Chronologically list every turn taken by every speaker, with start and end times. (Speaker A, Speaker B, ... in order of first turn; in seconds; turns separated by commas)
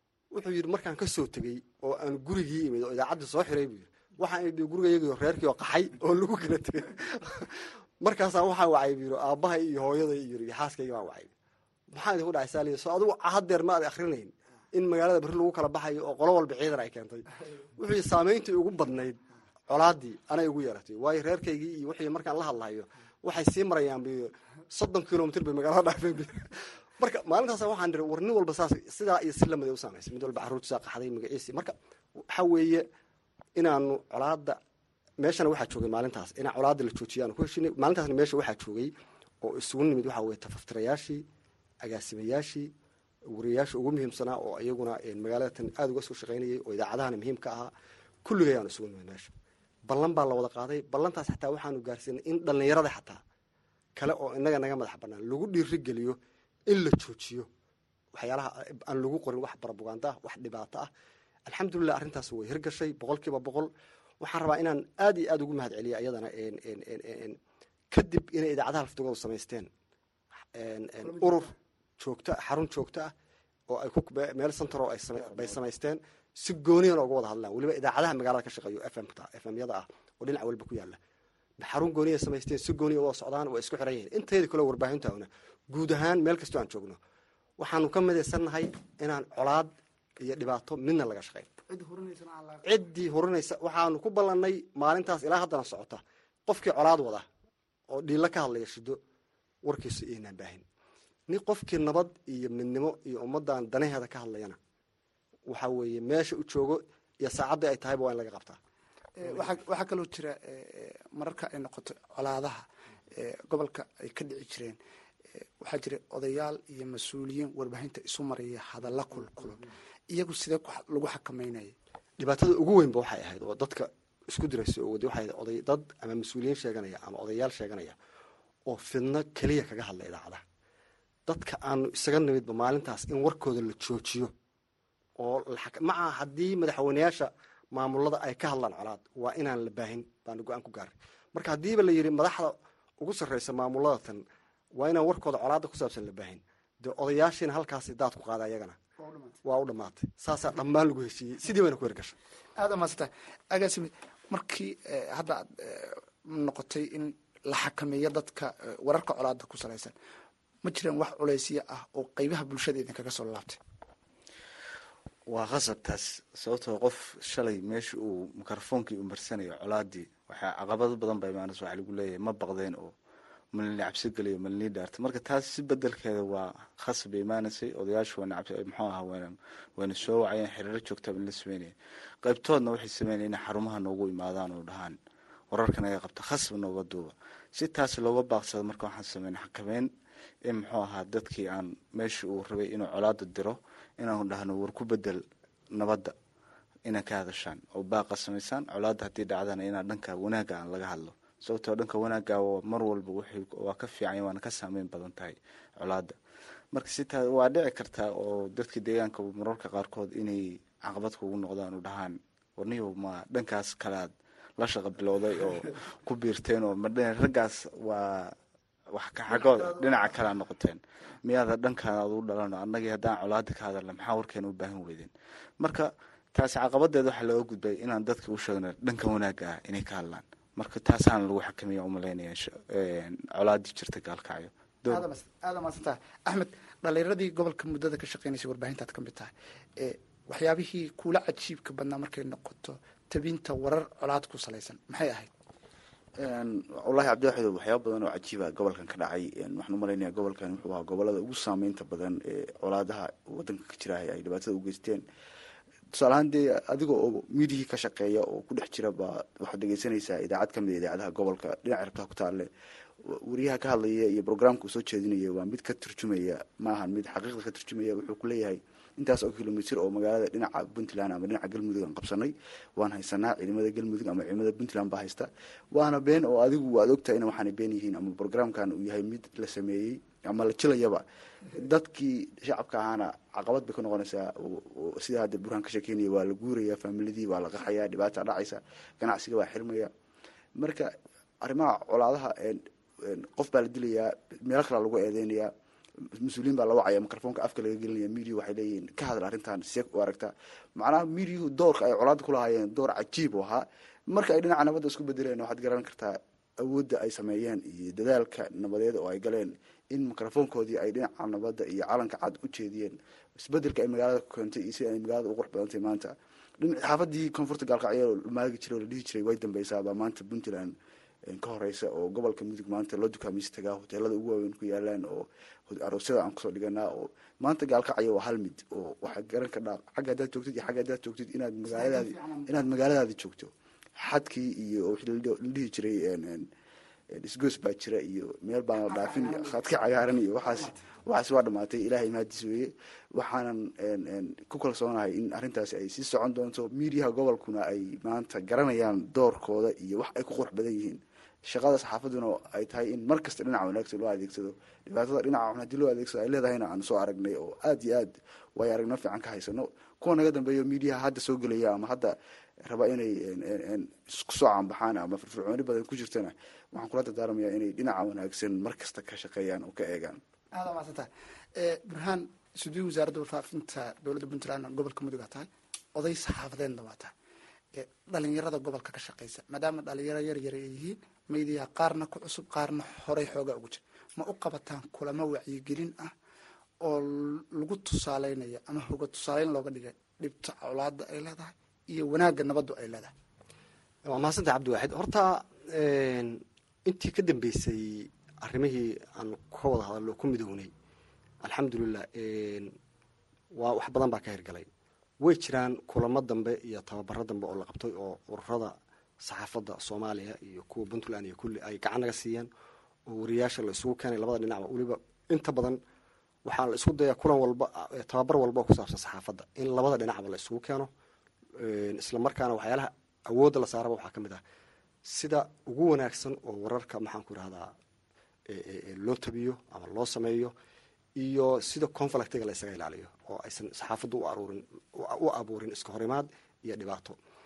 Speaker A: 0.3-11.3, Speaker A: 11.9-32.9, Speaker A: 33.5-34.6, Speaker A: 35.2-41.2, Speaker A: 41.8-42.7, Speaker A: 43.3-47.7, Speaker A: 48.2-49.3, Speaker A: 49.9-53.2, Speaker A: 54.0-57.5, Speaker A: 58.1-60.9, Speaker A: 61.5-67.4, Speaker A: 67.9-69.7, Speaker A: 70.5-73.1, Speaker A: 73.7-81.0, Speaker A: 81.6-87.0, Speaker A: 87.6-91.6, Speaker B: 91.7-92.7, Speaker A: 92.6-97.3, Speaker A: 97.9-99.0, Speaker A: 99.6-100.6, Speaker A: 101.3-104.6, Speaker A: 105.5-108.6, Speaker B: 109.2-114.8, Speaker B: 115.6-121.7, Speaker A: 122.2-128.0, Speaker A: 128.7-130.4, Speaker A: 131.2-134.3, Speaker A: 135.2-148.8, Speaker B: 149.0-149.3, Speaker A: 149.4-152.2, Speaker B: 152.6-159.9, Speaker B: 160.6-163.6, Speaker C: 165.3-172.9, Speaker C: 173.5-181.7, Speaker C: 182.2-184.9, Speaker C: 185.5-189.9, Speaker C: 190.4-195.2, Speaker C: 195.7-196.1, Speaker C: 196.8-206.2, Speaker C: 206.7-218.3, Speaker C: 218.9-235.1, Speaker B: 234.9-245.3, Speaker D: 246.2-255.0, Speaker D: 255.9-262.5, Speaker D: 263.0-289.9, Speaker D: 290.6-295.5, Speaker D: 296.2-320.7, Speaker D: 321.3-336.5, Speaker B: 331.7-332.6, Speaker D: 337.2-362.1, Speaker B: 338.9-339.6, Speaker B: 340.4-340.8, Speaker D: 362.6-370.2, Speaker B: 370.6-377.1, Speaker B: 377.7-386.1, Speaker B: 386.8-393.1, Speaker A: 394.1-400.7, Speaker A: 401.4-402.7, Speaker A: 403.5-404.7, Speaker A: 405.2-412.5, Speaker A: 413.1-415.8, Speaker A: 416.4-420.9, Speaker A: 421.5-424.4, Speaker A: 425.0-427.7, Speaker A: 428.5-430.5, Speaker A: 431.1-437.2